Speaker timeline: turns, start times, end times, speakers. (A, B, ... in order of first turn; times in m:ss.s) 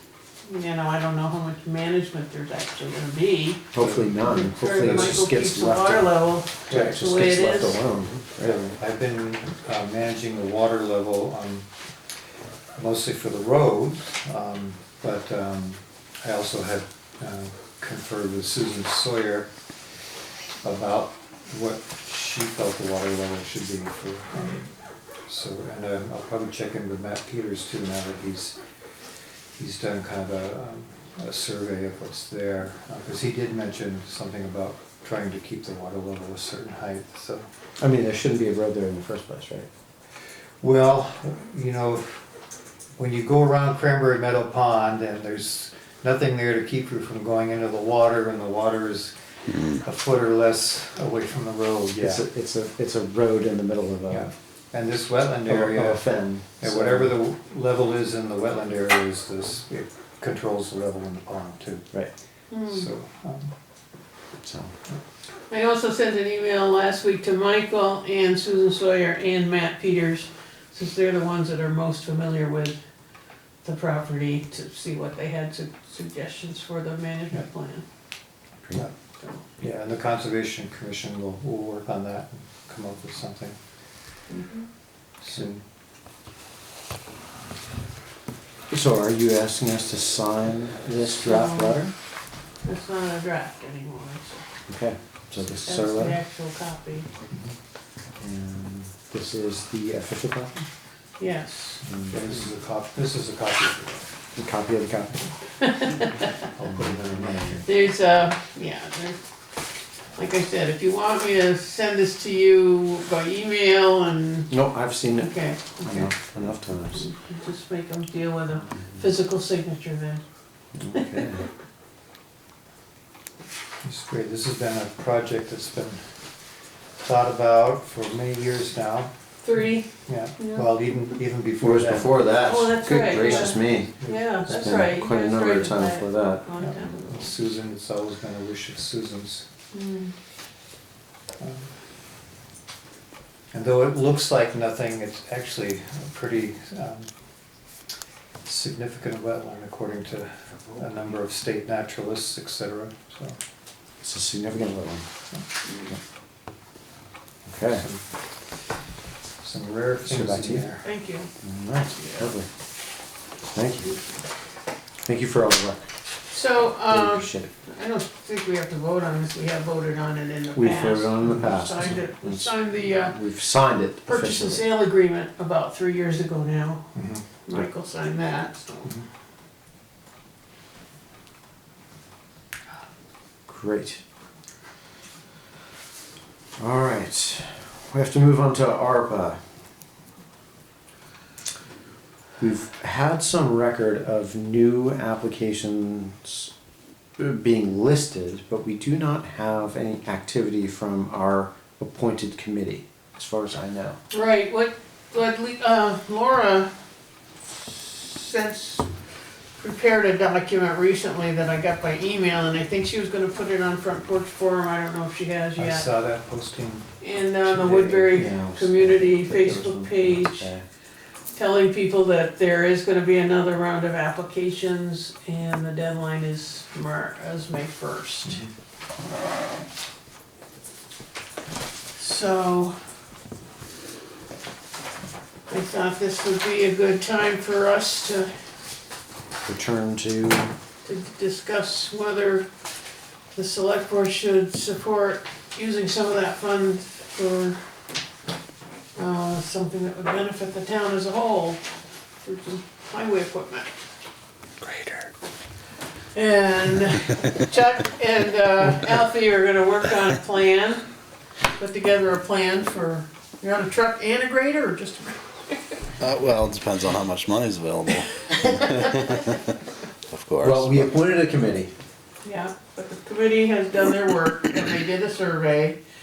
0:00.4-0:07.8 A
0:03.7-0:08.8 B
0:03.8-0:05.2 C
0:06.7-0:07.0 C
0:08.4-0:11.7 C
0:12.8-0:19.5 C
0:20.6-0:24.7 C
0:25.3-0:28.6 C
0:29.6-0:37.5 C
0:37.8-0:39.7 B
0:40.6-0:42.2 C
0:43.0-0:52.2 C
0:51.9-0:54.3 B
0:54.1-0:56.1 C
0:55.5-0:57.2 B
0:56.6-1:01.9 C
1:02.5-1:02.9 A
1:02.6-1:03.5 C
1:04.4-1:04.7 B
1:05.5-1:12.8 A
1:13.6-1:17.8 A
1:19.2-1:19.6 A
1:19.6-1:23.6 C
1:24.3-1:24.7 A
1:25.2-1:25.6 C
1:28.7-1:31.9 B
1:31.0-1:31.8 A
1:32.6-1:34.4 A
1:34.7-1:36.2 B
1:35.6-1:37.1 A
1:37.3-1:37.6 C
1:38.2-1:40.7 B
1:41.2-1:41.8 A
1:41.9-1:42.5 B
1:41.9-1:44.1 C
1:44.4-1:45.2 B
1:45.6-1:46.3 A
1:46.1-1:47.6 C
1:46.7-1:47.6 B
1:47.6-1:49.2 A
1:50.2-1:54.5 A
1:54.5-1:57.1 B
1:55.2-1:56.1 A
1:56.9-2:00.2 A
2:00.8-2:01.5 B
2:01.0-2:01.3 A
2:03.8-2:06.0 C
2:07.0-2:09.1 C
2:09.4-2:10.7 A
2:10.1-2:12.2 C
2:11.6-2:13.9 B
2:12.4-2:17.4 A
2:13.2-2:14.3 C
2:14.5-2:16.5 B
2:16.6-2:19.4 C
2:19.7-2:20.1 A
2:21.4-2:21.7 C
2:23.5-2:27.1 C
2:28.4-2:33.4 C
2:34.0-2:35.1 B
2:35.7-2:35.9 A
2:37.5-2:37.8 B
2:37.7-2:38.0 C
2:39.4-2:40.9 C
2:40.0-2:40.7 B
2:40.8-2:41.3 A
2:41.4-2:42.5 B
2:41.9-2:42.3 A
2:43.5-2:44.0 B
2:45.0-2:45.9 B
2:46.3-2:53.2 A
2:46.9-2:47.5 B
2:50.6-2:54.6 B
2:54.0-2:56.9 A
2:56.9-2:57.3 C
2:57.4-2:59.0 A
3:03.5-3:04.0 B
3:06.6-3:09.4 B
3:12.4-3:16.5 B
3:17.2-3:24.0 B
3:24.1-3:26.7 A
3:27.7-3:28.9 A
3:29.6-3:35.9 A
3:35.6-3:37.0 C
3:37.0-3:40.5 A
3:37.5-3:40.6 B
3:41.4-3:48.4 A
3:52.0-3:52.8 A
3:55.5-3:58.3 A
3:59.5-4:00.5 B
4:00.8-4:02.5 A
4:03.3-4:07.6 A
4:09.0-4:11.6 A
4:12.2-4:13.7 A
4:16.1-4:20.9 A
4:21.6-4:25.8 A
4:26.0-4:29.4 D
4:30.1-4:30.7 D
4:30.4-4:31.7 B
4:32.2-4:35.8 A